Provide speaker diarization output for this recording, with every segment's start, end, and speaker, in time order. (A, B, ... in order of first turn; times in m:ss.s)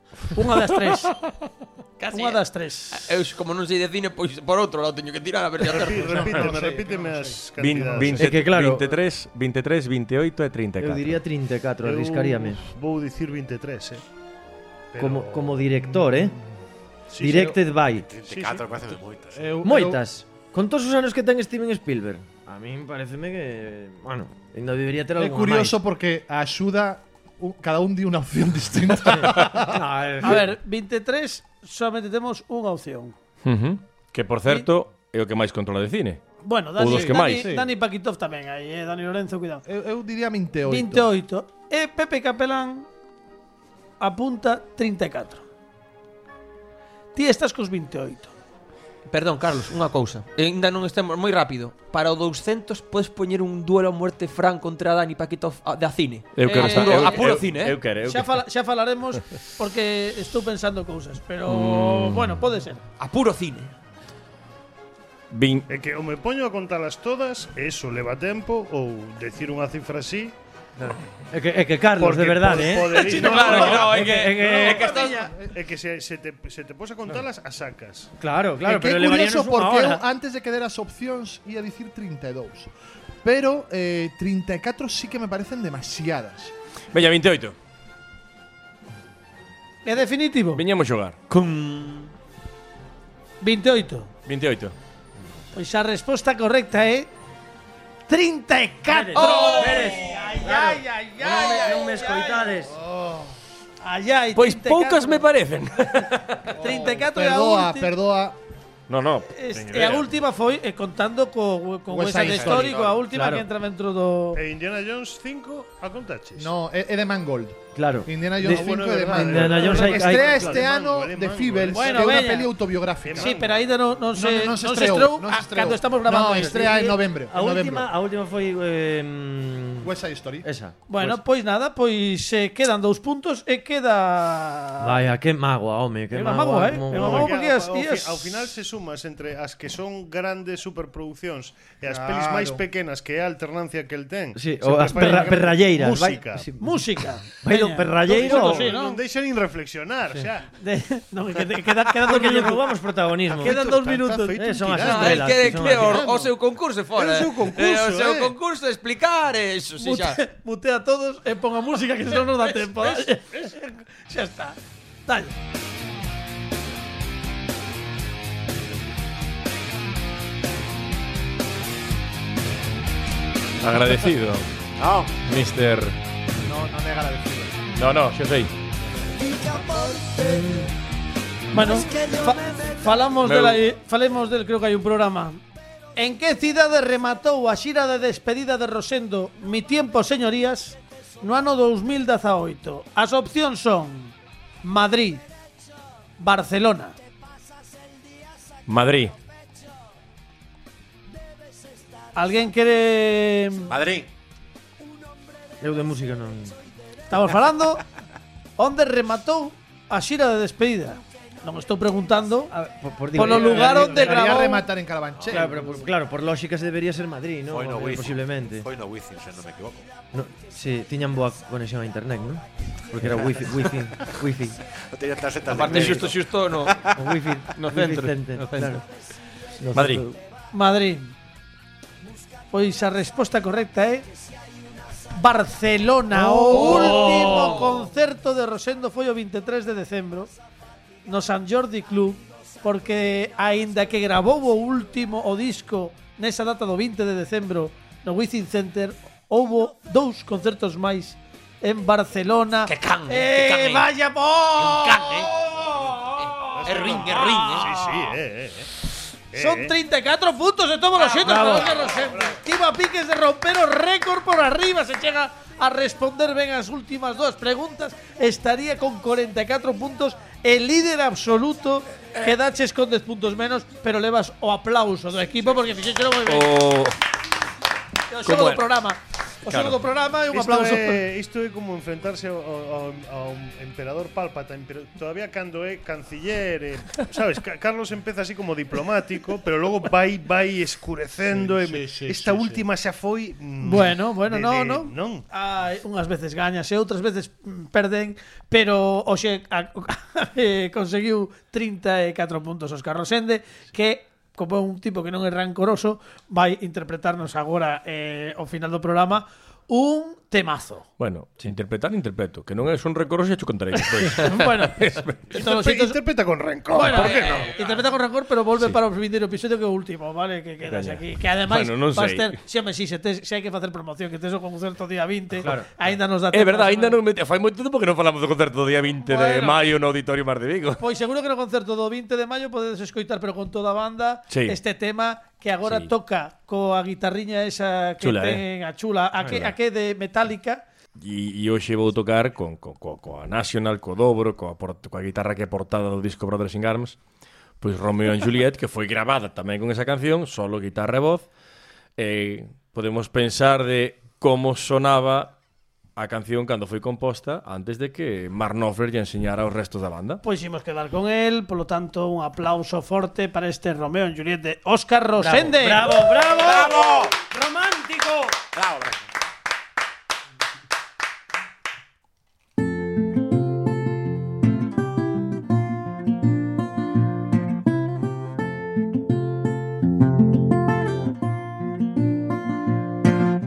0:00.3-0:01.1 A
0:02.0-0:06.3 B
0:02.1-0:03.1 A
0:05.6-0:08.3 C
0:06.0-0:07.4 D
0:07.6-0:11.2 E
0:08.1-0:09.0 F
0:10.8-0:12.6 F
0:11.8-0:14.0 C
0:14.9-0:15.6 C
0:15.0-0:16.4 F
0:17.1-0:17.6 C
0:17.2-0:18.0 F
0:17.9-0:19.6 G
0:18.3-0:18.6 D
0:19.4-0:20.0 D
0:19.6-0:25.8 F
0:25.2-0:29.8 D
0:29.1-0:30.5 F
0:30.2-0:33.2 A
0:33.4-0:36.2 E
0:36.4-0:39.6 A
0:36.8-0:37.5 E
0:36.9-0:37.7 D
0:39.7-0:41.1 D
0:40.7-0:42.9 A
0:44.0-0:45.4 A
0:47.1-0:48.3 A
0:49.1-0:57.8 B
0:56.4-0:58.4 E
0:56.4-0:57.4 A
0:58.0-1:02.8 A
1:01.4-1:02.4 E
1:03.0-1:03.7 B
1:05.3-1:05.7 E
1:05.7-1:10.4 C
1:11.3-1:14.9 F
1:12.0-1:18.1 C
1:13.0-1:15.3 B
1:13.1-1:13.8 A
1:14.4-1:15.5 D
1:18.2-1:20.0 F
1:18.6-1:22.7 D
1:23.2-1:26.5 D
1:26.9-1:27.6 E
1:29.8-1:30.6 A
1:30.6-1:31.2 E
1:31.3-1:32.1 B
1:33.4-1:34.1 A
1:34.3-1:34.7 E
1:35.6-1:37.1 A
1:38.1-1:42.6 A
1:38.9-1:42.7 F
1:39.2-1:39.8 B
1:42.7-1:43.3 D
1:43.8-1:45.3 A
1:44.4-1:46.5 E
1:46.5-1:48.4 D
1:46.6-1:47.9 A
1:48.9-1:50.1 E
1:49.3-1:54.4 A
1:51.9-1:52.8 D
1:52.4-1:53.0 B
1:53.1-1:53.4 F
1:54.4-1:56.5 C
1:56.4-2:03.4 D
1:57.7-2:00.6 F
1:58.5-2:02.3 C
2:01.7-2:02.6 A
2:03.0-2:03.5 C
2:03.1-2:06.9 A
2:04.1-2:07.9 D
2:06.3-2:09.9 F
2:09.8-2:10.5 D
2:10.4-2:11.2 F
2:10.9-2:15.0 A
2:14.8-2:17.3 F
2:16.1-2:18.4 A
2:16.9-2:26.5 C
2:21.9-2:22.6 D
2:24.4-2:28.7 F
2:26.6-2:29.0 A
2:28.0-2:30.5 C
2:30.6-2:32.7 A
2:32.0-2:33.7 F
2:33.3-2:36.4 C
2:33.4-2:34.4 A
2:34.3-2:36.1 F
2:34.8-2:40.2 B
2:36.9-2:38.3 C
2:39.8-2:45.3 A
2:53.6-2:54.5 E
2:54.8-2:55.2 G
2:55.3-2:56.0 E
2:56.4-2:57.6 D
2:57.8-2:58.5 E
2:59.2-3:00.7 F
3:01.5-3:05.4 A
3:01.6-3:02.7 F
3:03.2-3:03.6 E
3:06.0-3:15.2 A
3:16.2-3:17.0 A
3:18.7-3:19.1 E
3:22.2-3:23.7 A
3:23.7-3:24.1 G
3:25.6-3:26.6 F
3:27.1-3:27.8 A
3:28.6-3:32.5 A
3:32.5-3:34.3 F
3:33.1-3:34.7 A
3:33.2-3:35.9 D
3:35.2-3:35.4 G
3:35.3-3:38.7 F
3:37.5-3:39.9 G
3:40.1-3:44.6 F
3:44.9-3:47.0 G
3:45.5-3:46.8 B
3:46.9-3:48.8 F
3:47.6-3:48.8 B
3:49.6-3:50.2 F
3:49.7-3:50.0 E
3:50.5-3:51.1 A
3:52.5-3:54.1 A
3:55.1-4:00.3 A
3:56.1-3:57.7 F
3:56.5-3:57.8 B
4:01.0-4:18.1 A
4:12.7-4:13.9 B
4:14.6-4:15.3 B
4:16.6-4:18.7 C
4:16.6-4:17.7 B
4:19.3-4:19.7 C
4:19.4-4:36.6 A
4:21.2-4:21.8 F
4:21.4-4:22.4 C
4:36.3-4:37.0 E
4:38.1-4:41.0 A
4:38.2-4:38.6 E
4:39.5-4:39.8 E
4:40.3-4:55.2 C
4:51.3-4:52.6 D
4:53.6-5:10.9 A
5:11.0-5:15.3 E
5:13.7-5:16.0 A
5:15.3-5:17.6 C
5:16.7-5:27.0 A
5:17.0-5:17.5 B
5:20.7-5:22.4 E
5:25.4-5:25.7 F
5:26.3-5:30.8 E
5:29.0-5:29.6 A
5:30.8-5:40.6 A
5:34.3-5:34.6 E
5:35.6-5:35.9 E
5:38.0-5:38.4 E
5:39.2-5:39.6 E
5:41.0-5:47.0 E
5:47.6-5:51.3 E
5:52.0-5:55.4 E
5:56.0-6:00.2 E
6:00.2-6:05.9 A
6:05.2-6:08.4 F
6:06.3-6:07.2 G
6:08.5-6:09.1 G